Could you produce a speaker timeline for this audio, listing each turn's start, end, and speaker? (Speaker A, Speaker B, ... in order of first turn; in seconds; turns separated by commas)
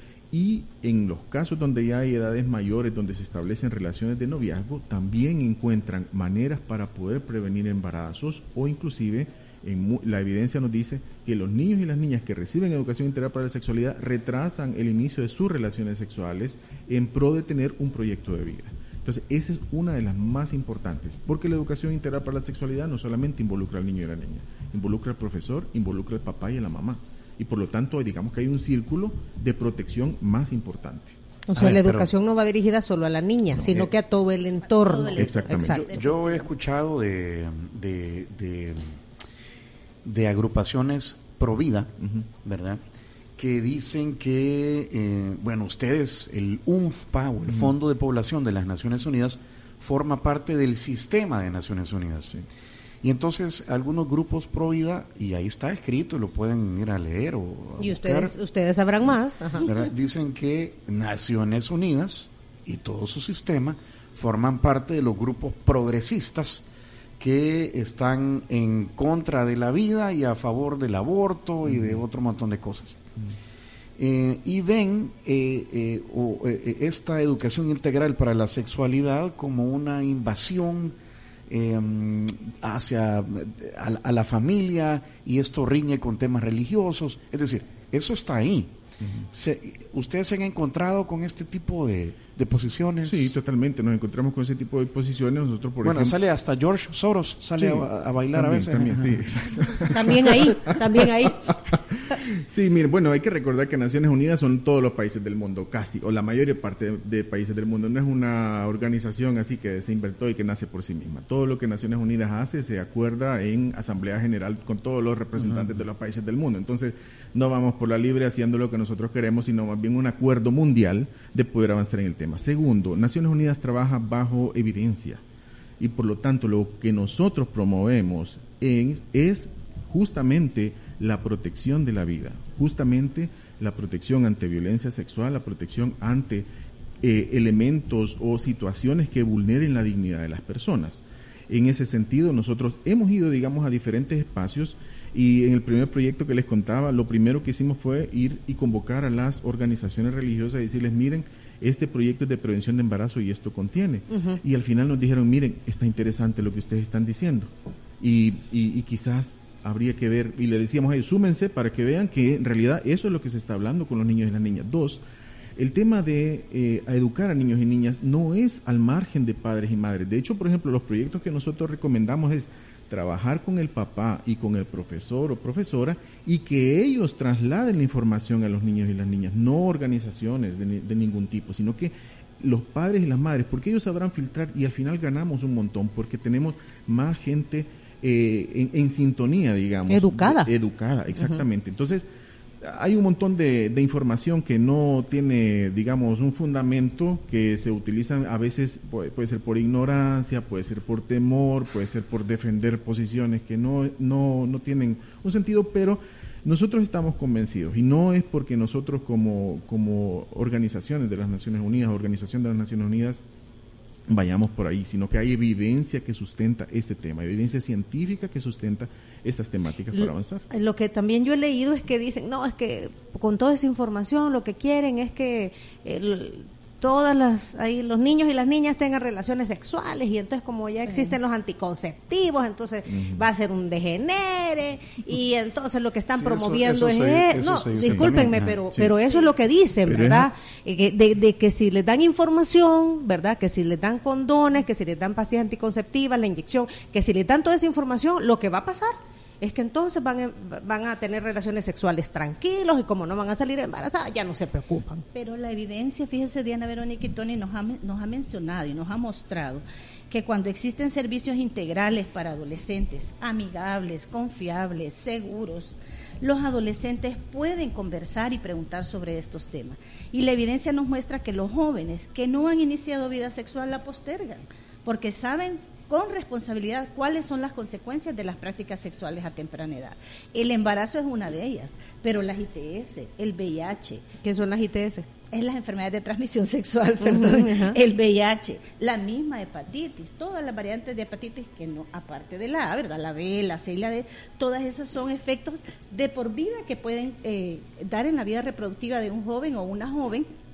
Speaker A: 0.3-31.1, Speaker B: 31.5-35.8, Speaker C: 31.6-32.1, Speaker A: 33.5-33.8, Speaker D: 34.7-36.5, Speaker A: 35.1-35.8, Speaker C: 35.7-38.9, Speaker C: 40.0-42.8, Speaker C: 43.4-52.4, Speaker C: 53.0-58.3, Speaker B: 57.8-59.7, Speaker C: 59.6-66.6, Speaker C: 67.2-73.0, Speaker A: 71.7-72.0, Speaker C: 74.0-81.0, Speaker C: 81.5-88.7, Speaker A: 89.0-89.2, Speaker C: 89.3-93.3, Speaker A: 93.0-96.2, Speaker C: 95.8-99.2, Speaker A: 97.6-100.8, Speaker B: 99.9-101.5, Speaker A: 101.7-125.2, Speaker A: 125.8-136.5, Speaker A: 137.0-165.0, Speaker B: 154.1-154.4, Speaker A: 165.6-192.0, Speaker B: 189.9-190.5, Speaker A: 192.6-213.2, Speaker A: 214.1-220.4, Speaker B: 220.5-255.0, Speaker A: 232.9-233.2, Speaker C: 236.2-238.9, Speaker A: 237.8-238.2, Speaker A: 239.9-240.3, Speaker D: 255.1-284.0, Speaker B: 284.2-285.1, Speaker D: 285.3-300.3, Speaker B: 287.0-287.8